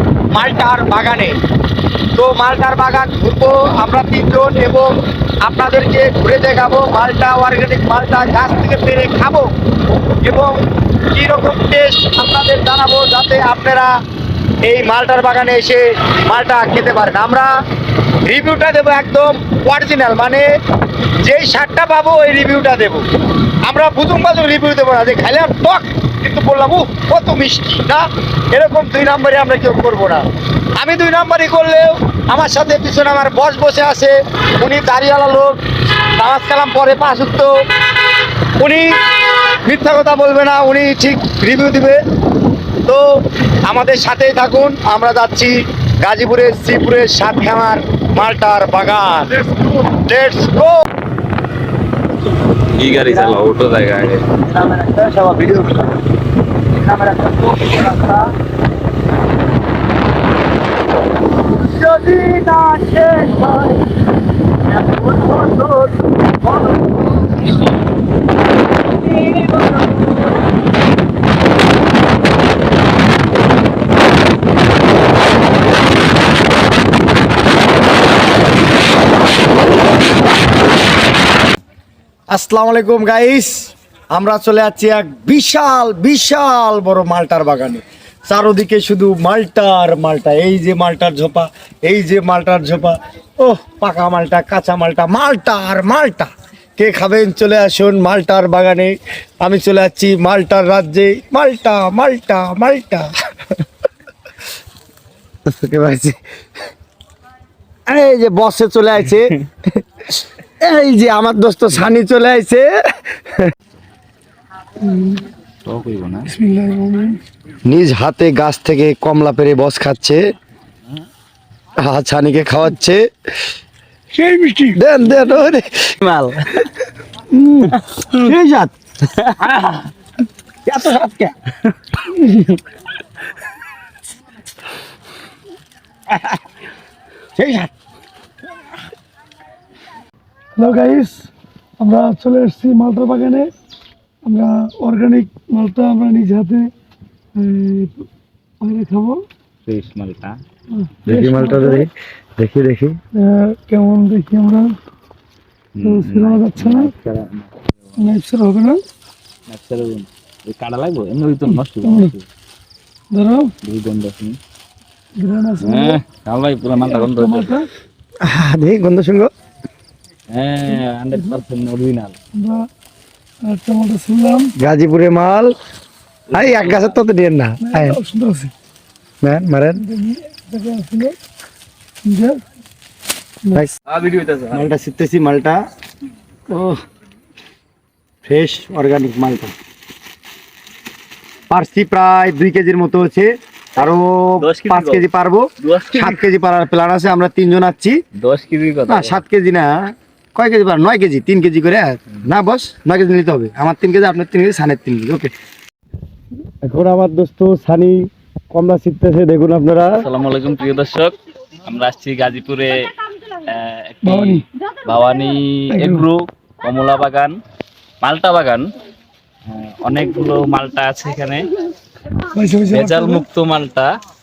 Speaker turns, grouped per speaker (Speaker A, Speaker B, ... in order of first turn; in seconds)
Speaker A: 0.3-1.4, 2.2-4.9, 5.5-9.5, 10.2-10.6, 11.1-13.9, 14.7-17.5, 18.2-20.4, 21.2-23.0, 23.6-28.0, 28.5-30.2, 30.8-35.5, 36.2-37.5, 38.6-42.0, 43.7-50.7, 54.5-55.8, 56.8-58.2, 61.7-63.8, 64.9-66.0, 82.3-103.1, 105.5-106.2, 107.9-109.3, 110.6-112.7, 117.7-120.2, 121.8-123.0, 124.8-125.9, 127.3-128.7, 130.7-131.3, 137.4-137.7, 151.1-153.0, 168.3-169.3, 174.6-175.5, 176.3-178.0, 179.2-179.8, 184.5-185.6, 186.5-186.8, 188.2-189.5, 191.5-198.0, 198.9-199.7, 200.3-205.3, 206.6-210.0
Speaker B: 52.7-54.3, 115.7-116.3, 126.0-126.7, 129.1-129.9, 149.7-150.4, 155.8-157.5, 159.5-162.2, 163.6-164.4, 165.6-167.6, 170.3-172.2, 176.3-177.0, 183.9-184.7, 194.4-195.1, 195.6-196.2, 198.2-199.2, 210.0-217.4, 218.0-218.7, 219.5-221.5, 222.7-223.9
Speaker C: 114.8-115.2, 116.3-117.2, 124.1-124.8, 132.1-132.6, 140.6-143.5, 144.2-146.7, 147.3-148.1, 148.6-149.2, 150.7-151.9, 153.2-154.8, 155.8-156.9, 158.0-158.8, 161.5-162.1, 163.1-163.5, 165.2-166.0, 166.8-167.7, 172.3-172.7, 173.4-174.5, 177.6-178.5, 179.8-181.2, 182.0-182.4, 214.0-214.4, 215.7-216.0, 222.3-223.2